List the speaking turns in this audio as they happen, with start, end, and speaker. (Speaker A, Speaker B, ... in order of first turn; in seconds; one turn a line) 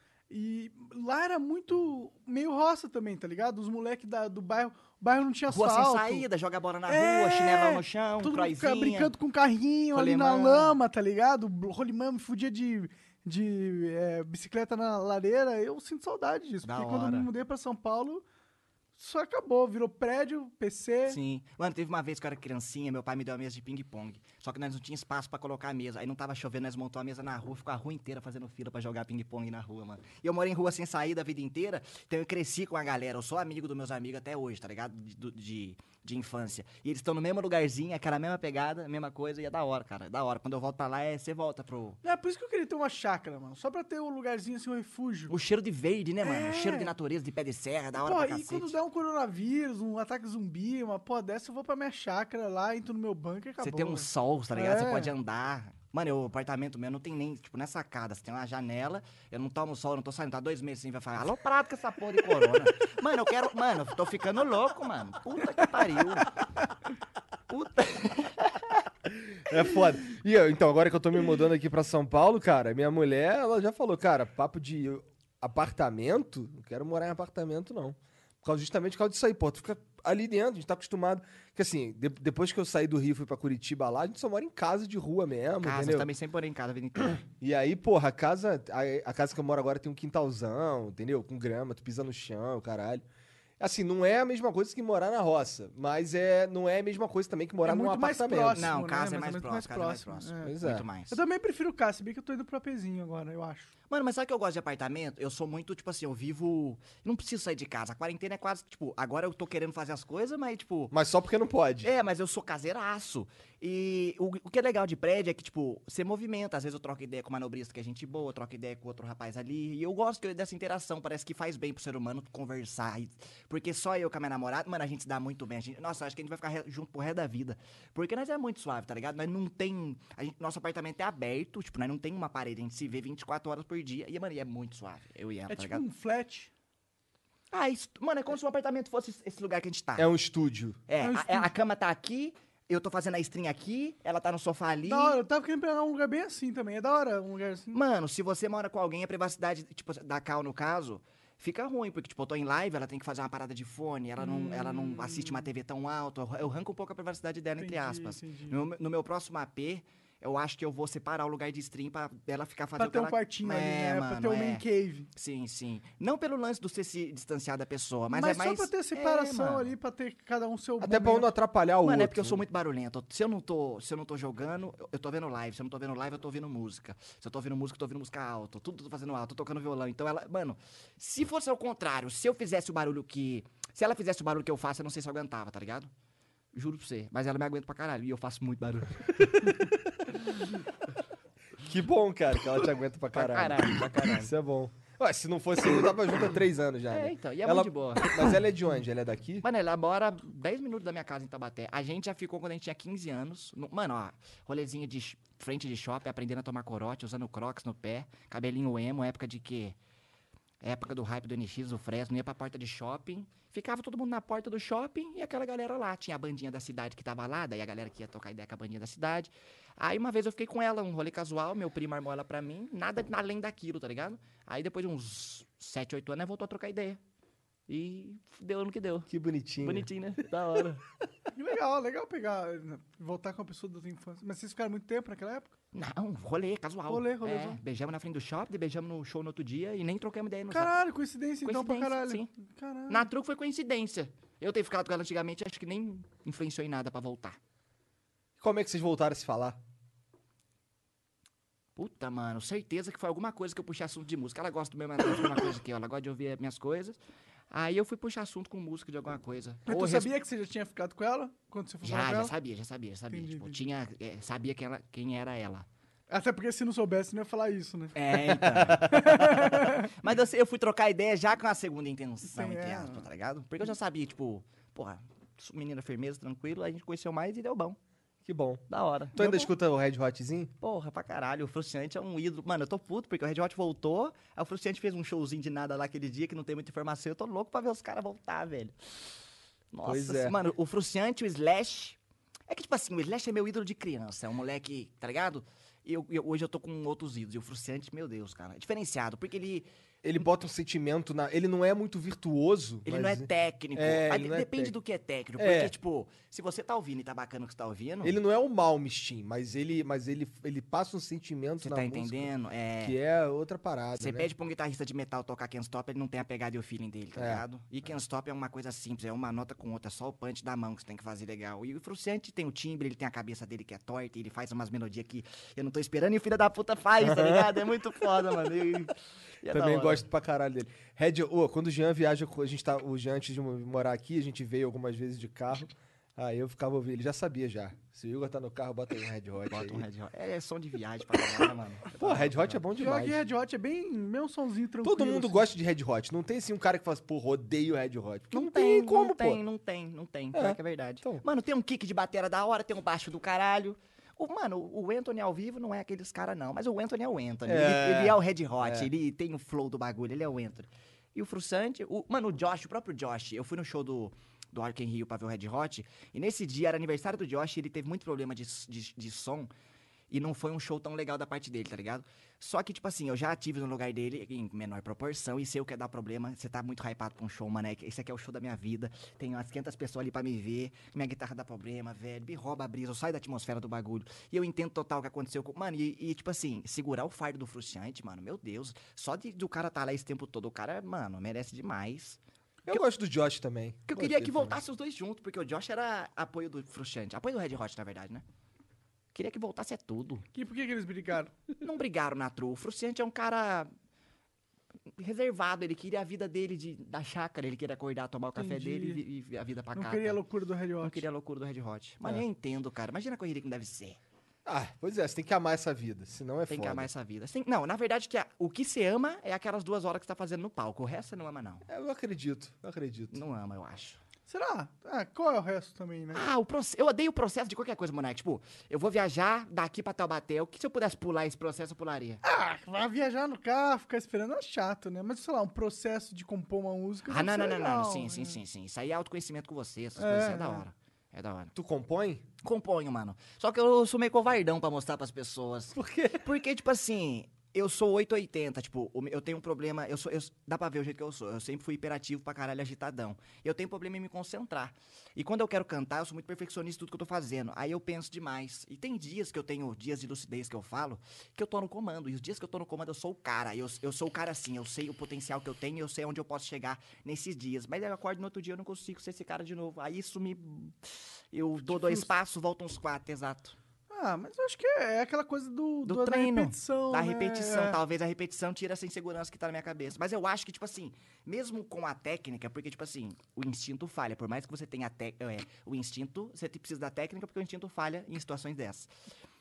Speaker A: 0.3-6.2
Speaker B: 5.5-9.1
Speaker A: 6.9-18.2
Speaker B: 9.9-10.7
Speaker B: 16.6-17.3
Speaker A: 18.9-21.2
Speaker B: 21.1-42.0
Speaker A: 42.0-45.3
Speaker B: 45.3-48.7
Speaker A: 46.2-46.9
Speaker A: 48.0-55.1
Speaker B: 53.6-66.4
Speaker B: 67.5-68.8
Speaker C: 69.1-86.1
Speaker B: 85.6-87.2
Speaker C: 87.2-93.0
Speaker C: 93.6-98.7
Speaker A: 97.6-100.5
Speaker B: 98.5-101.2
Speaker C: 100.4-100.8
Speaker A: 101.1-103.7
Speaker B: 103.9-110.9
Speaker C: 110.9-111.9
Speaker B: 111.8-135.8
Speaker A: 135.5-136.5
Speaker B: 137.5-140.1
Speaker C: 140.0-140.8
Speaker B: 140.9-145.2
Speaker A: 141.0-141.5
Speaker A: 144.8-147.8
Speaker B: 147.7-169.7
Speaker A: 154.2-155.4
Speaker A: 157.6-158.6
Speaker A: 162.8-165.1
Speaker A: 168.1-171.3
Speaker C: 170.8-172.4
Speaker B: 171.8-185.9
Speaker B: 186.5-189.7
Speaker C: 191.6-199.4
Speaker B: 193.1-194.3
Speaker B: 196.9-198.4
Speaker B: 199.4-209.8
Speaker B: 210.6-227.0
Speaker B: 227.7-229.1
Speaker C: 229.1-229.9
Speaker B: 229.6-230.8
Speaker A: 231.3-235.5
Speaker B: 235.7-240.7
Speaker A: 236.9-237.6
Speaker A: 240.5-243.1
Speaker B: 241.4-242.3
Speaker B: 242.9-247.4
Speaker C: 248.4-249.6
Speaker B: 251.8-257.0
Speaker B: 257.5-260.1
Speaker A: 259.7-262.3
Speaker B: 261.8-265.7
Speaker A: 263.1-263.6
Speaker A: 266.1-269.9
Speaker B: 267.9-277.8
Speaker C: 268.6-269.0
Speaker A: 272.3-273.0
Speaker C: 278.2-278.6
Speaker B: 278.7-279.5
Speaker C: 279.1-280.5
Speaker B: 280.6-288.7
Speaker B: 289.7-292.0
Speaker C: 289.8-290.4
Speaker B: 292.5-299.7
Speaker C: 300.0-304.7
Speaker B: 302.9-308.1
Speaker C: 305.4-305.7
Speaker C: 308.0-314.3
Speaker B: 311.6-312.9
Speaker B: 314.0-330.0
Speaker C: 317.1-317.4
Speaker C: 327.0-327.7
Speaker C: 329.5-339.8
Speaker B: 339.5-342.6
Speaker C: 342.0-343.2
Speaker A: 342.8-345.4
Speaker C: 344.8-349.4
Speaker B: 348.3-369.5
Speaker C: 350.3-351.2
Speaker C: 357.4-358.9
Speaker B: 370.1-392.8
Speaker C: 392.7-394.6
Speaker B: 393.9-398.2
Speaker B: 399.1-400.2
Speaker A: 400.3-401.4
Speaker B: 401.6-403.7
Speaker B: 405.0-410.2
Speaker A: 408.4-409.0
Speaker A: 409.7-411.0
Speaker B: 410.8-414.0
Speaker C: 414.4-416.9
Speaker B: 416.5-421.6
Speaker C: 421.7-423.2
Speaker B: 423.1-424.0
Speaker A: 424.3-426.2
Speaker B: 426.1-432.2
Speaker A: 432.2-438.4
Speaker B: 437.1-441.5
Speaker A: 440.0-440.6
Speaker C: 441.5-442.2
Speaker B: 442.4-473.6
Speaker C: 445.7-446.3
Speaker A: 471.7-472.1
Speaker A: 473.9-477.8
Speaker B: 475.9-488.9